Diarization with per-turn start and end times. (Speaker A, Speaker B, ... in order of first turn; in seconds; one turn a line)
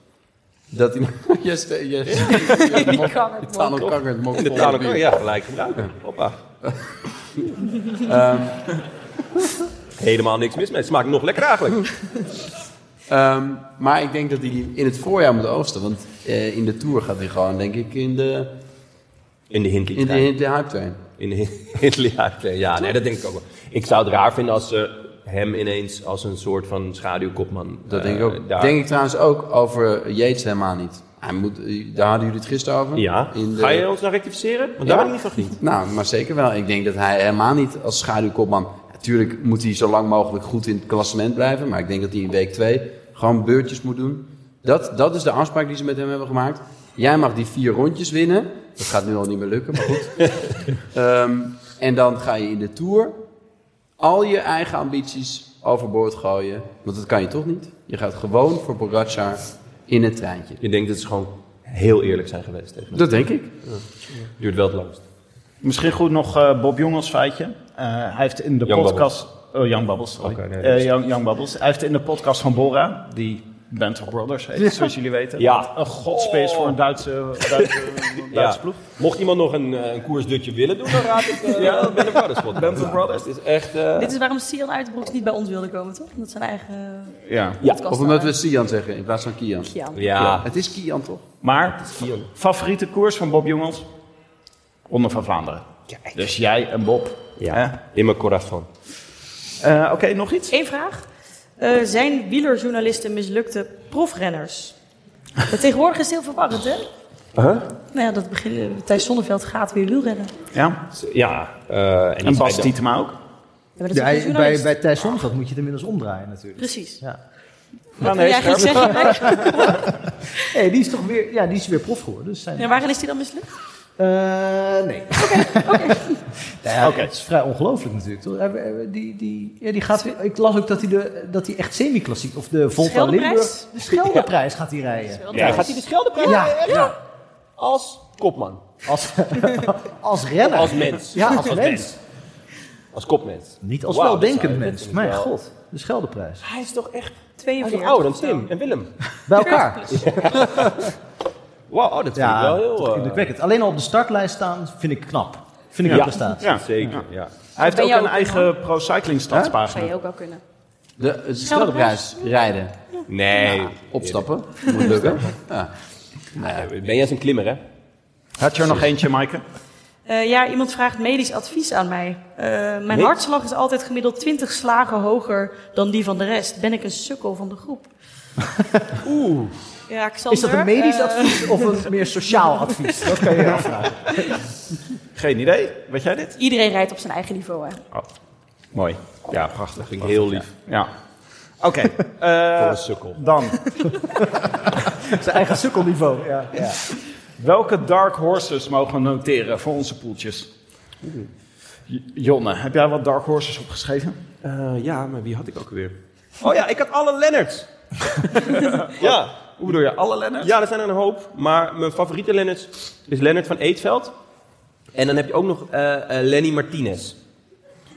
Speaker A: 0.7-5.1
Speaker B: 2.0-3.1
Speaker C: 2.3-3.8
Speaker B: 3.8-6.4
Speaker A: 7.9-8.6
Speaker B: 10.0-11.9
Speaker A: 13.1-18.5
Speaker B: 19.5-20.3
Speaker A: 19.9-21.1
Speaker B: 21.2-28.8
Speaker A: 27.9-33.9
Speaker B: 32.9-35.6
Speaker A: 34.8-53.2
Speaker A: 54.0-60.6
Speaker B: 60.6-63.1
Speaker A: 62.9-63.5
Speaker B: 63.7-65.0
Speaker D: 65.6-78.8
Speaker B: 68.6-69.1
Speaker B: 70.2-70.9
Speaker B: 75.4-76.8
Speaker B: 77.4-84.1
Speaker D: 81.5-83.3
Speaker C: 84.0-88.3
Speaker D: 87.3-87.6
Speaker A: 87.9-91.2
Speaker C: 89.6-90.0
Speaker B: 89.9-90.5
Speaker D: 91.4-93.9
Speaker B: 91.8-92.3
Speaker D: 94.9-97.8
Speaker B: 97.4-98.7
Speaker D: 99.6-100.5
Speaker C: 100.5-101.0
Speaker C: 101.6-104.8
Speaker C: 105.5-106.8
Speaker B: 107.3-107.7
Speaker C: 107.9-110.3
Speaker D: 110.5-110.8
Speaker B: 110.9-112.7
Speaker D: 112.2-113.2
Speaker C: 113.8-114.7
Speaker E: 113.9-117.2
Speaker C: 116.6-117.0
Speaker D: 118.0-119.5
Speaker C: 118.0-120.4
Speaker E: 119.0-122.8
Speaker C: 122.6-123.5
Speaker E: 124.0-136.9
Speaker C: 125.2-126.2
Speaker D: 126.8-127.1
Speaker C: 132.8-133.7
Speaker C: 135.1-135.7
Speaker B: 135.3-137.0
Speaker B: 137.6-138.6
Speaker E: 138.8-141.9
Speaker B: 140.4-141.9
Speaker B: 142.9-145.3
Speaker E: 143.6-146.4
Speaker B: 146.4-150.9
Speaker C: 147.4-148.5
Speaker E: 149.2-150.1
Speaker C: 149.4-149.9
Speaker B: 151.7-153.3
Speaker E: 152.1-156.4
Speaker D: 155.8-159.9
Speaker B: 155.9-157.3
Speaker C: 157.6-158.5
Speaker A: 159.3-159.6
Speaker C: 159.7-160.4
Speaker A: 161.0-162.7
Speaker C: 161.4-162.1
Speaker C: 162.9-163.5
Speaker B: 163.1-165.2
Speaker A: 163.9-165.7
Speaker A: 166.3-166.7
Speaker B: 166.4-167.6
Speaker D: 168.4-169.4
Speaker C: 170.1-177.9
Speaker D: 179.0-179.5
Speaker C: 179.9-181.9
Speaker E: 180.3-184.4
Speaker C: 182.7-183.0
Speaker D: 185.1-186.3
Speaker C: 186.4-187.8
Speaker D: 188.7-190.9
Speaker B: 189.5-190.5
Speaker D: 191.6-193.8
Speaker B: 192.5-193.2
Speaker E: 195.0-196.8
Speaker D: 197.4-200.5
Speaker D: 201.9-204.2
Speaker B: 204.4-207.7
Speaker D: 208.3-210.5
Speaker B: 209.0-209.3
Speaker B: 210.4-214.1
Speaker B: 214.9-217.2